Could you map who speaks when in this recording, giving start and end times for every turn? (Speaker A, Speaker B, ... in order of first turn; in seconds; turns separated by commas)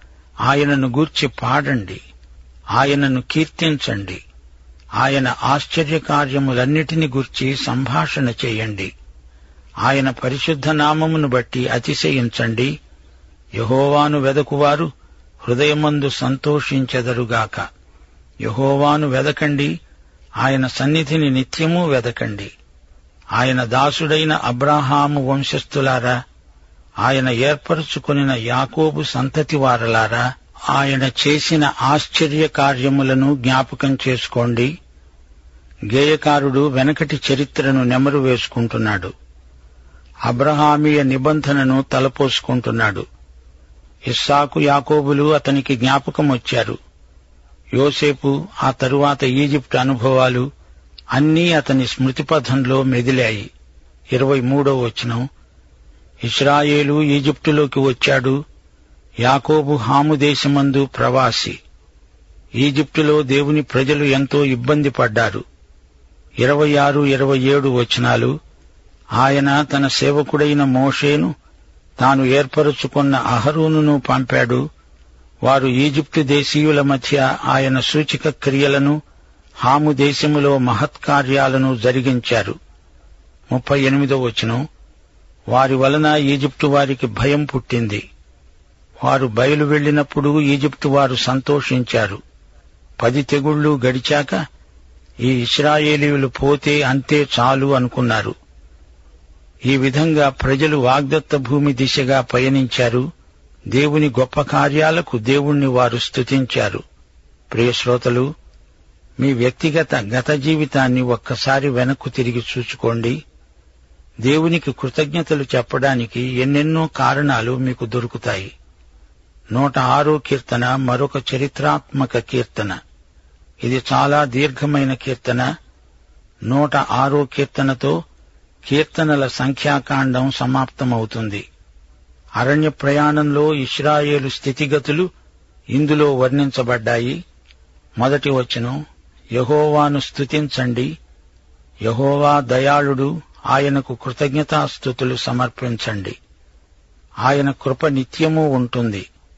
Speaker A: 0.5-2.0, Speaker A: 2.8-4.2, Speaker A: 5.0-8.9, Speaker A: 9.8-12.7, Speaker A: 13.6-14.9, Speaker A: 15.4-17.6, Speaker A: 18.4-19.7, Speaker A: 20.4-22.5, Speaker A: 23.4-26.2, Speaker A: 27.0-34.7, Speaker A: 35.9-39.1, Speaker A: 40.3-43.0, Speaker A: 44.1-46.8, Speaker A: 47.8-50.5, Speaker A: 51.1-53.5, Speaker A: 54.1-55.2, Speaker A: 56.2-58.4, Speaker A: 59.2-61.6, Speaker A: 62.6-65.4, Speaker A: 66.4-68.3, Speaker A: 69.2-71.3, Speaker A: 72.0-74.6, Speaker A: 75.4-79.0, Speaker A: 79.6-82.6, Speaker A: 83.5-84.6, Speaker A: 85.5-88.0, Speaker A: 89.0-92.2, Speaker A: 93.0-94.4, Speaker A: 95.2-98.3, Speaker A: 99.7-103.1, Speaker A: 103.7-106.8, Speaker A: 107.5-108.3, Speaker A: 109.2-113.2, Speaker A: 114.2-118.5, Speaker A: 119.5-122.8, Speaker A: 123.6-125.5, Speaker A: 126.5-128.0, Speaker A: 128.7-131.4, Speaker A: 132.4-135.1, Speaker A: 135.7-137.2, Speaker A: 138.0-138.8, Speaker A: 139.4-140.9, Speaker A: 141.9-146.2, Speaker A: 147.2-149.1